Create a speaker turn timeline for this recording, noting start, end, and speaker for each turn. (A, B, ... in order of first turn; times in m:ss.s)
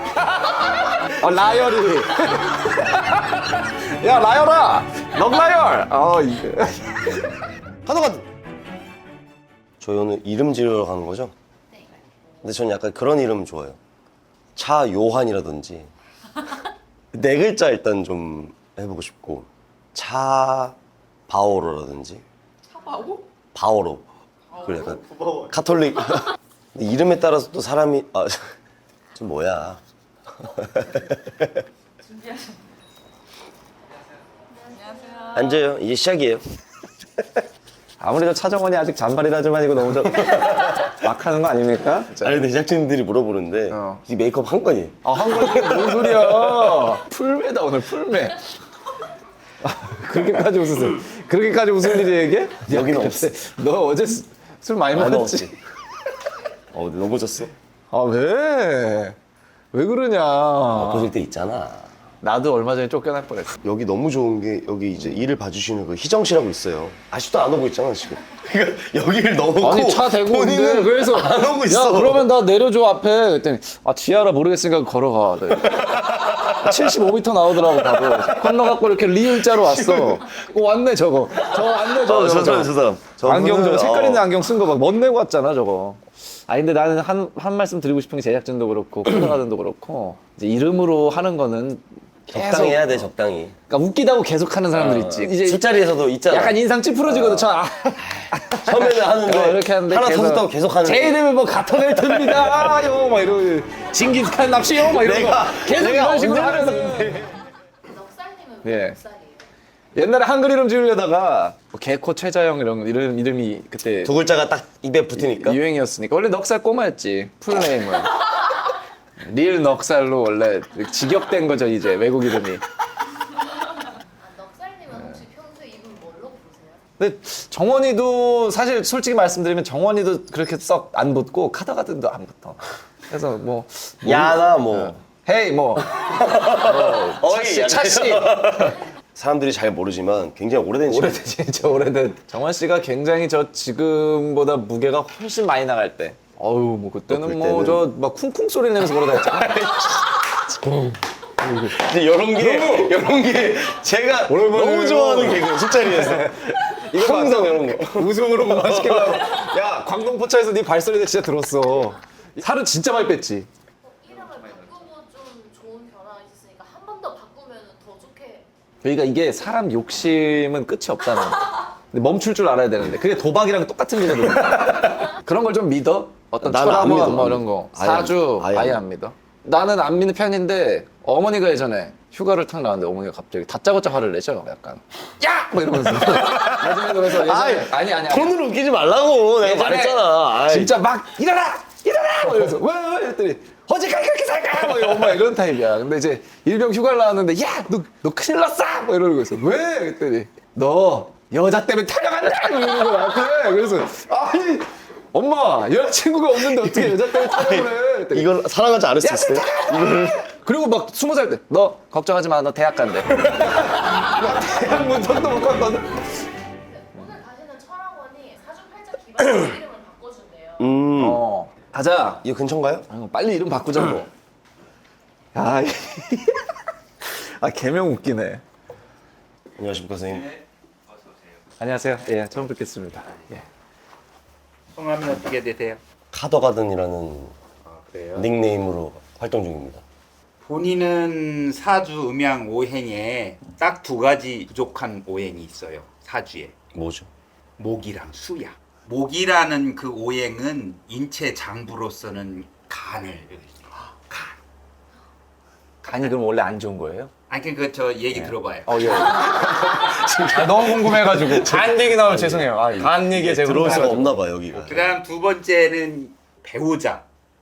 0:00.2-0:07.4 A
0:09.8-0:11.3 B
0:12.4-0:13.8 B
0:14.6-0:15.9 B
0:17.1-0:20.8 B
0:21.3-0:22.2 B
0:23.5-0:24.0 B
0:24.6-0:28.4 B
0:29.1-0:29.8 B
0:30.4-0:31.6 B
0:34.9-0:35.3 C
0:35.3-0:36.4 B
0:38.0-0:42.4 A
0:40.1-0:40.9 B
0:42.2-0:46.9 B
0:43.7-0:44.0 A
0:45.0-0:48.4 A
0:49.6-0:55.5 A
0:52.7-0:53.3 B
0:54.9-0:55.5 B
0:56.7-0:57.5 B
0:57.9-0:59.2 A
0:59.7-1:01.1 A
1:00.7-1:01.9 B
1:02.2-1:03.6 A
1:03.6-1:12.3 B
1:09.6-1:33.1 A
1:15.5-1:17.0 B
1:17.6-1:18.7 B
1:19.4-1:20.2 B
1:21.5-1:24.3 B
1:32.3-1:33.5 B
1:33.7-1:35.7 A
1:34.7-1:37.5 B
1:36.3-1:47.4 A
1:38.0-1:41.2 B
1:41.8-1:42.9 B
1:44.8-1:47.1 B
1:47.8-1:49.4 C
1:48.6-1:49.0 A
1:49.9-1:54.1 A
1:54.0-1:55.6 B
1:55.1-1:58.6 A
1:59.2-2:02.6 A
2:04.2-2:06.8 C
2:07.0-2:18.7 A
2:14.0-2:15.0 B
2:15.9-2:21.3 B
2:20.9-2:29.8 A
2:27.1-2:27.9 B
2:29.3-2:30.2 B
2:30.6-2:31.7 A
2:31.5-2:39.4 B
2:32.3-2:32.9 A
2:34.3-2:43.5 A
2:43.8-2:48.5 C
2:48.8-3:04.8 A
2:56.4-2:58.8 B
3:05.2-3:06.5 D
3:05.5-3:08.3 A
3:06.3-3:10.8 B
3:09.4-3:28.3 A
3:26.4-3:30.2 B
3:29.0-3:36.2 A
3:36.7-3:40.7 C
3:40.6-3:41.2 B
3:41.0-3:42.2 A
3:42.2-3:42.8 B
3:42.9-3:44.1 A
3:45.3-3:46.4 A
3:47.0-3:48.4 A
3:49.6-3:50.4 B
3:51.6-3:53.4 A
3:54.7-3:55.8 D
3:56.1-3:57.3 B
3:57.6-3:58.3 D
3:58.1-3:59.8 B
4:00.4-4:06.5 D
4:06.7-4:07.1 B
4:07.6-4:14.4 D
4:15.8-4:17.1 A
4:17.3-4:19.1 D
4:18.2-4:24.2 A
4:20.1-4:24.9 B
4:24.6-4:27.0 D